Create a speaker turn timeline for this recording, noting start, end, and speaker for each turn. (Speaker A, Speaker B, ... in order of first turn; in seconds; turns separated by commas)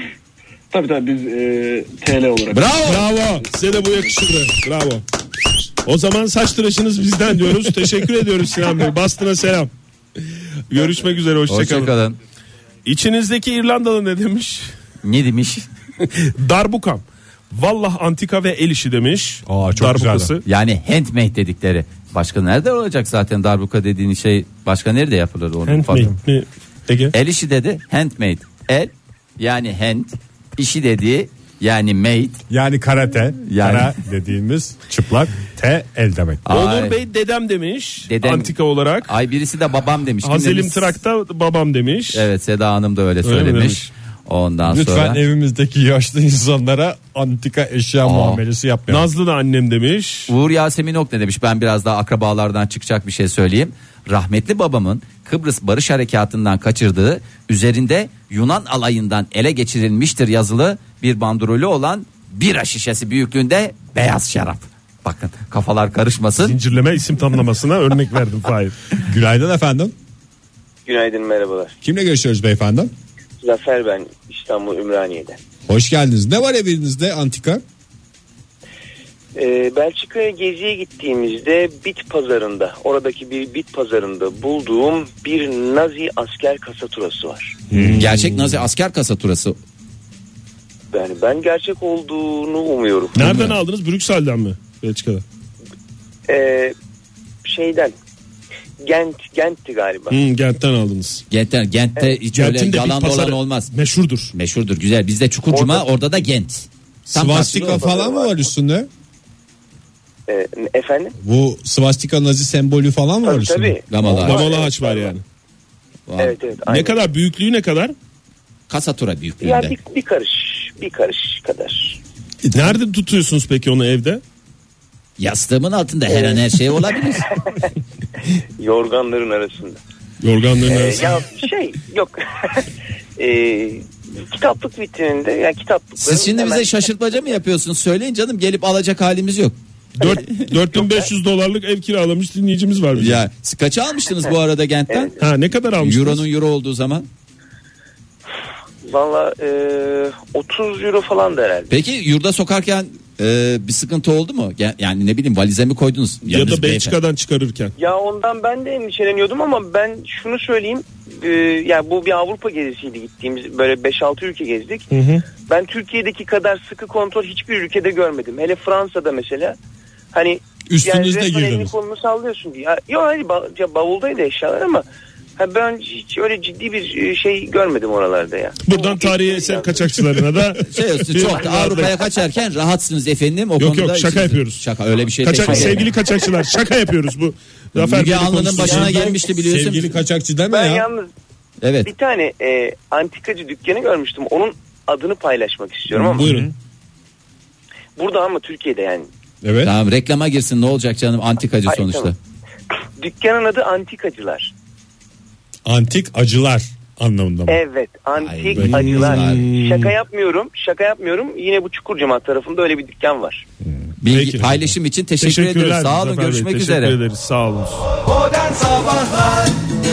Speaker A: 0.7-2.9, Speaker B: 2.5-3.0, Speaker C: 2.8-5.0, Speaker C: 5.8-9.7, Speaker C: 10.7-11.9, Speaker B: 11.5-12.2, Speaker C: 12.8-14.7, Speaker B: 15.0-15.7, Speaker C: 16.0-20.4, Speaker D: 19.5-20.3, Speaker B: 20.4-26.1, Speaker C: 25.6-27.1, Speaker B: 27.1-32.4, Speaker D: 32.5-36.4, Speaker B: 33.5-33.9, Speaker B: 36.5-37.0, Speaker C: 36.5-39.1, Speaker B: 38.1-38.5, Speaker B: 39.0-40.9, Speaker C: 40.2-42.2, Speaker B: 42.1-45.2, Speaker C: 43.2-43.9, Speaker D: 44.6-49.1, Speaker B: 48.0-48.4, Speaker C: 48.9-50.3, Speaker B: 50.3-66.6, Speaker C: 66.4-68.7, Speaker D: 69.0-69.9, Speaker E: 70.8-71.7, Speaker D: 71.8-72.9, Speaker E: 73.4-75.4, Speaker D: 75.7-77.6, Speaker E: 79.3-87.6, Speaker C: 87.7-88.4, Speaker D: 87.7-88.0, Speaker B: 88.0-89.5, Speaker E: 90.9-93.4, Speaker C: 93.1-95.2, Speaker B: 93.2-93.5, Speaker E: 96.3-96.7, Speaker E: 97.4-97.9, Speaker E: 98.8-100.2, Speaker C: 100.1-101.2, Speaker B: 101.3-103.7, Speaker C: 102.3-104.3, Speaker B: 104.3-107.8, Speaker E: 105.5-105.8, Speaker D: 107.1-108.9, Speaker E: 107.5-108.3, Speaker E: 110.3-111.1, Speaker D: 111.2-113.7, Speaker E: 113.2-115.1, Speaker B: 113.9-114.4, Speaker C: 114.2-115.2, Speaker B: 116.1-116.3, Speaker E: 116.2-117.1, Speaker C: 116.7-117.9, Speaker B: 118.7-119.7, Speaker E: 119.4-122.0, Speaker D: 122.4-122.7, Speaker C: 122.5-124.2, Speaker B: 125.2-127.3, Speaker E: 126.1-126.5, Speaker E: 128.6-129.8, Speaker C: 130.2-131.1, Speaker E: 130.6-132.7, Speaker E: 133.2-136.8, Speaker B: 136.0-139.5, Speaker C: 140.0-143.2, Speaker B: 140.1-140.4, Speaker B: 142.9-145.1, Speaker E: 144.9-145.2, Speaker C: 145.2-146.2, Speaker B: 145.8-147.1, Speaker E: 148.8-151.7, Speaker B: 151.7-156.9, Speaker C: 156.2-157.7, Speaker E: 157.8-164.9, Speaker C: 164.9-165.2, Speaker E: 165.4-169.6, Speaker E: 170.1-174.8, Speaker D: 170.7-171.7, Speaker E: 175.4-180.2, Speaker C: 178.6-181.9, Speaker B: 180.7-185.9, Speaker C: 183.6-184.6, Speaker C: 185.2-189.2, Speaker B: 187.8-189.9, Speaker D: 188.5-190.8, Speaker E: 190.5-191.1, Speaker B: 191.6-191.9, Speaker E: 191.8-196.3, Speaker C: 196.1-196.5, Speaker D: 196.1-196.5, Speaker E: 198.0-199.1, Speaker D: 199.4-199.7, Speaker B: 199.6-202.2, Speaker E: 201.7-202.1, Speaker E: 203.0-204.5, Speaker D: 205.7-207.6, Speaker E: 207.5-213.4, Speaker B: 208.2-209.5, Speaker C: 208.6-209.9, Speaker B: 214.0-217.0, Speaker C: 214.1-214.5, Speaker C: 215.2-217.9